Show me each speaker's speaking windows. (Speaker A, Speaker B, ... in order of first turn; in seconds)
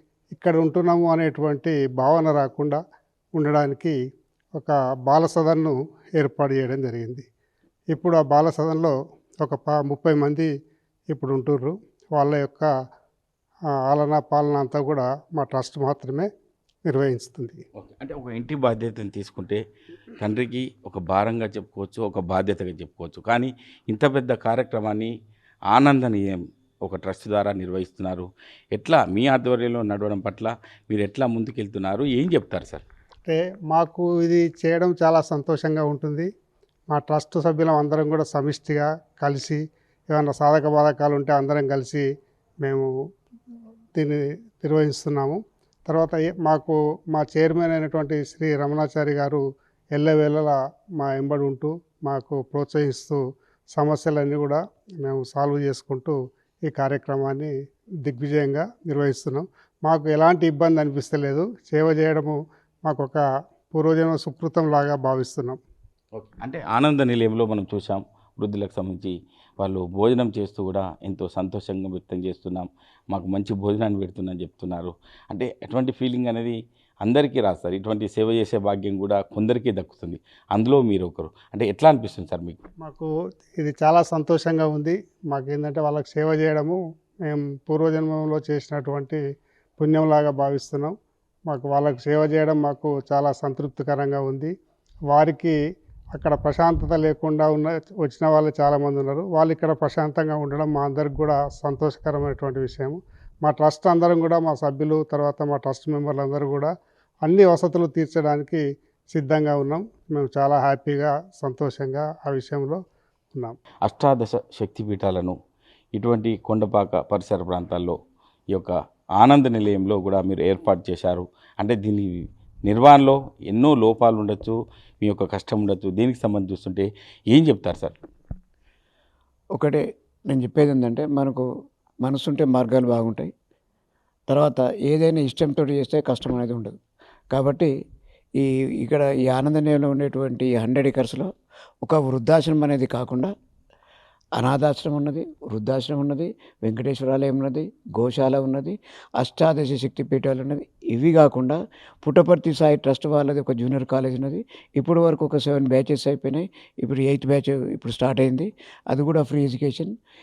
Speaker A: 0.3-2.8, 3.3-3.9, 4.5-7.2, 7.9-10.5, 11.1-12.7, 13.9-16.3, 16.9-17.6, 33.2-36.3, 36.9-42.0, 44.0-49.4, 49.9-53.2, 53.7-56.1, 56.7-57.5, 58.0-63.2, 63.7-65.6, 82.8-89.2, 89.8-90.9, 91.5-94.5, 95.1-95.5, 96.1-106.7, 107.2-112.8
Speaker B: 18.0-19.6, 20.2-25.1, 25.7-32.8, 66.1-82.6, 113.8-115.3, 115.9-117.9, 118.5-122.1, 122.7-127.9
Speaker C: 129.6-131.4, 132.0-133.3, 134.3-136.8, 137.3-137.7, 138.4-141.3, 141.8-143.3, 144.4-159.9